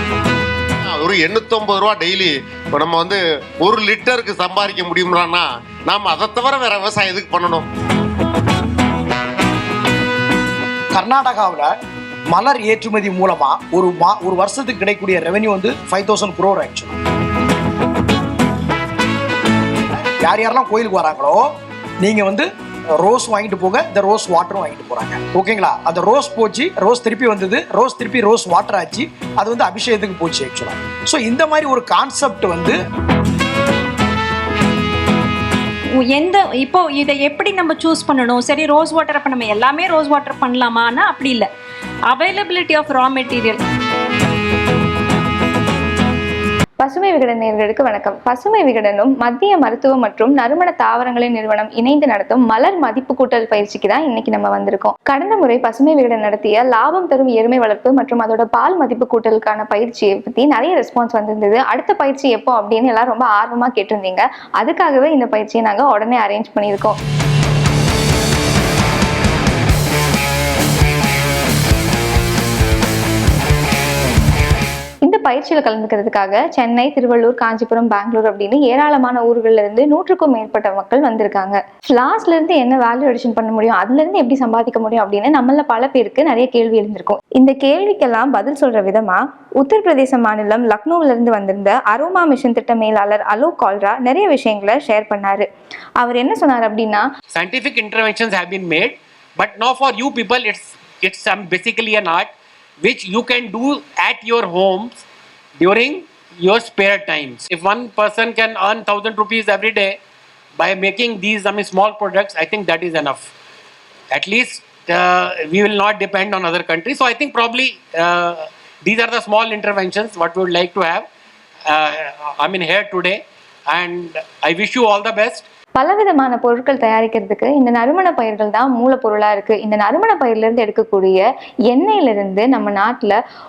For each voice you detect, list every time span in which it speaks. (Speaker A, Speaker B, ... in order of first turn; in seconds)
Speaker A: 0.8-7.7
Speaker B: 10.9-11.7, 12.3-17.0, 20.2-21.5, 22.0-22.5, 23.0-32.8
Speaker C: 36.0-41.5, 42.1-43.6
Speaker D: 46.8-67.0, 75.0-95.4, 96.0-97.0, 125.8-133.2
Speaker E: 97.3-105.0, 105.6-110.0, 110.6-113.3, 114.1-121.1, 121.7-125.5